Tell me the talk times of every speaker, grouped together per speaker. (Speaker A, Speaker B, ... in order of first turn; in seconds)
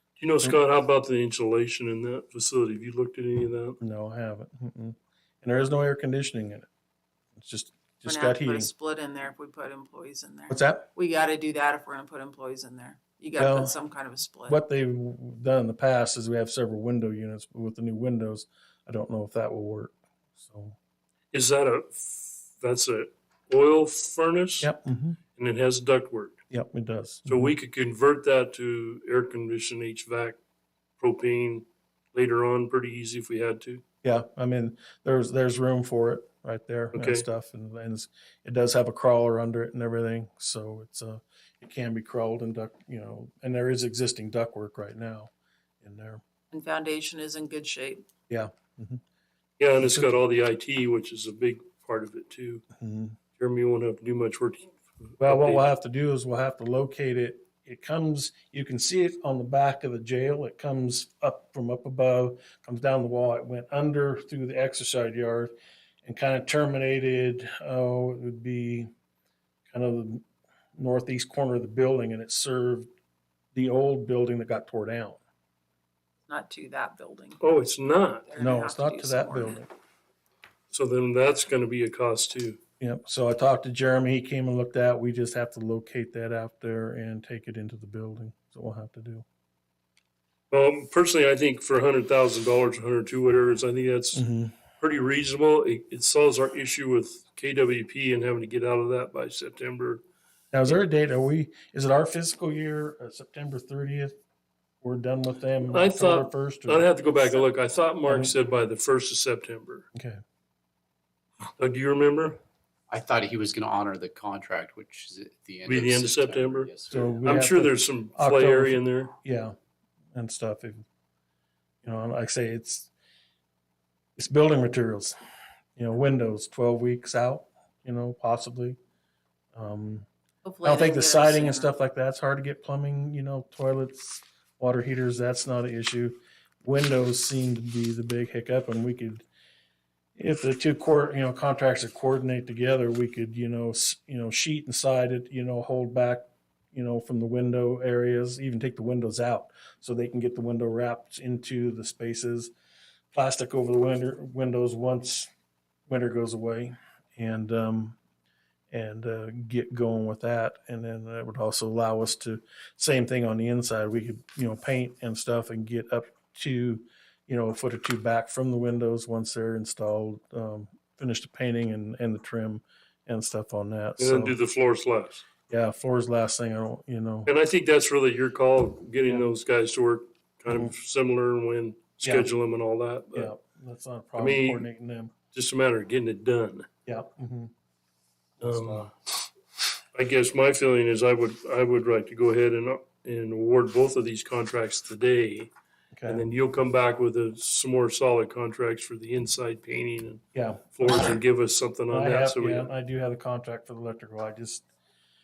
Speaker A: 0.2-3.8, 21.3-24.7, 25.4-26.4, 27.2-30.4, 31.0-33.8, 36.9-37.2, 49.6-52.6, 53.4-55.7, 77.4-78.3, 80.7-82.6, 90.5-94.2, 94.8-100.0, 105.7-109.9, 111.6-112.4, 115.7-119.1, 174.0-175.2, 177.2-183.3, 184.2-184.6, 185.3-186.7, 188.4-188.9, 189.9-195.5, 196.1-202.7
Speaker B: 3.8-6.7, 7.3-8.7, 10.5-10.9, 13.3-13.8, 14.5-20.8, 24.6-25.2, 26.5-27.5, 34.0-46.2, 48.3-49.0, 49.8-50.1, 52.8-53.2, 55.2-65.5, 66.0-68.9, 69.7-70.2, 70.8-72.9, 73.5-75.2, 78.4-79.7, 82.8-89.2, 94.1-94.6, 100.5-104.1, 104.8-106.9, 108.0-108.3, 109.9-110.2, 116.9-119.5, 120.1-120.8, 121.8-122.9, 124.2-125.2, 125.8-128.8, 129.5-130.1, 130.6-139.2, 140.2-152.5, 153.1-155.3, 155.9-158.0, 158.7-174.3, 175.5-177.3, 182.0-182.3, 183.1-185.1, 186.8-187.5, 188.4-188.9, 195.9-196.2, 200.3-201.2, 201.9-204.7
Speaker C: 8.1-14.6, 46.5-48.0, 76.3-77.5, 78.2-79.6, 130.4-131.7
Speaker D: 112.9-117.4